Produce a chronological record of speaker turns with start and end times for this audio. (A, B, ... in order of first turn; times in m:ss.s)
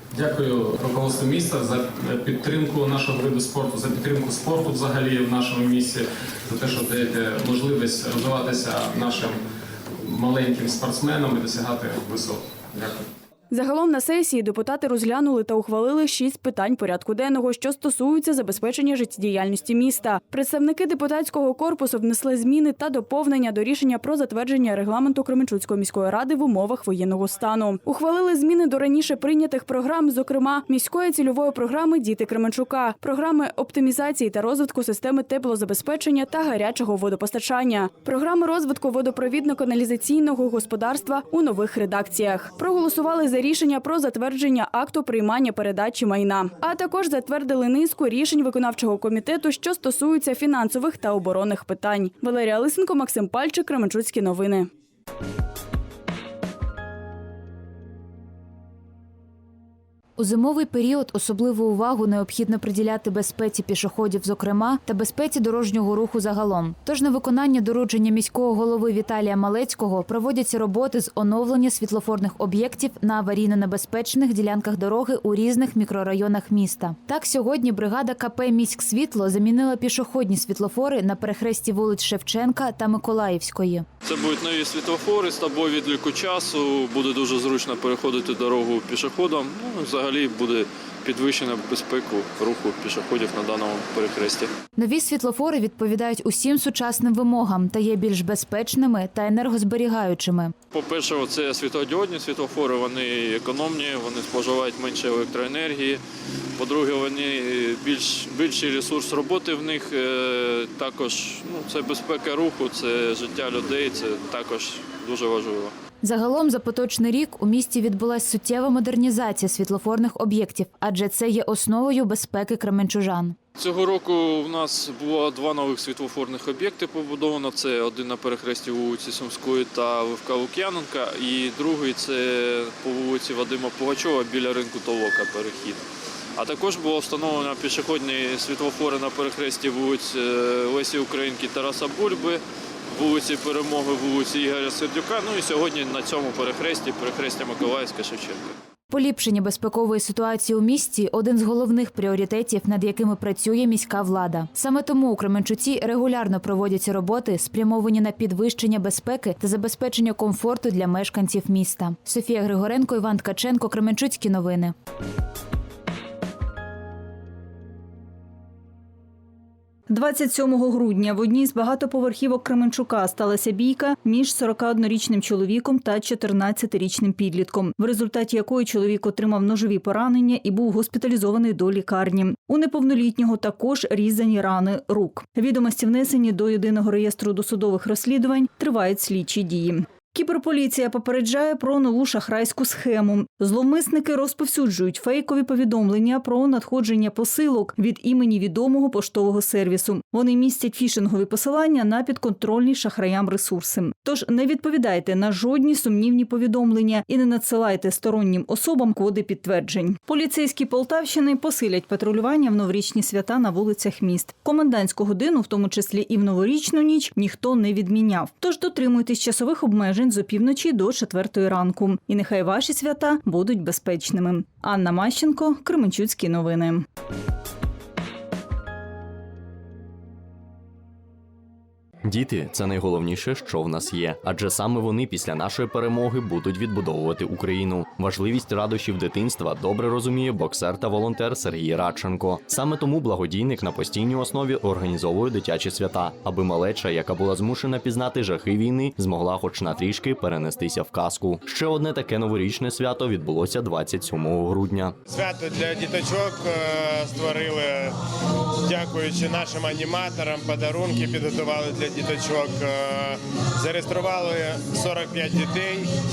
0:00.2-0:09.4 A
0:10.1-0:13.0 A
0:13.5-0:54.7 B
1:00.2-1:23.9 C
1:24.0-1:34.5 D
1:34.8-1:40.5 C
1:40.7-1:46.0 D
1:46.6-1:55.7 D
1:56.0-2:03.4 C
2:03.6-2:15.8 D
2:16.4-2:28.6 D
2:28.9-2:44.7 C
2:49.9-3:46.8 E
3:52.0-4:15.0 F
4:15.1-4:17.9 G
4:18.7-4:25.8 G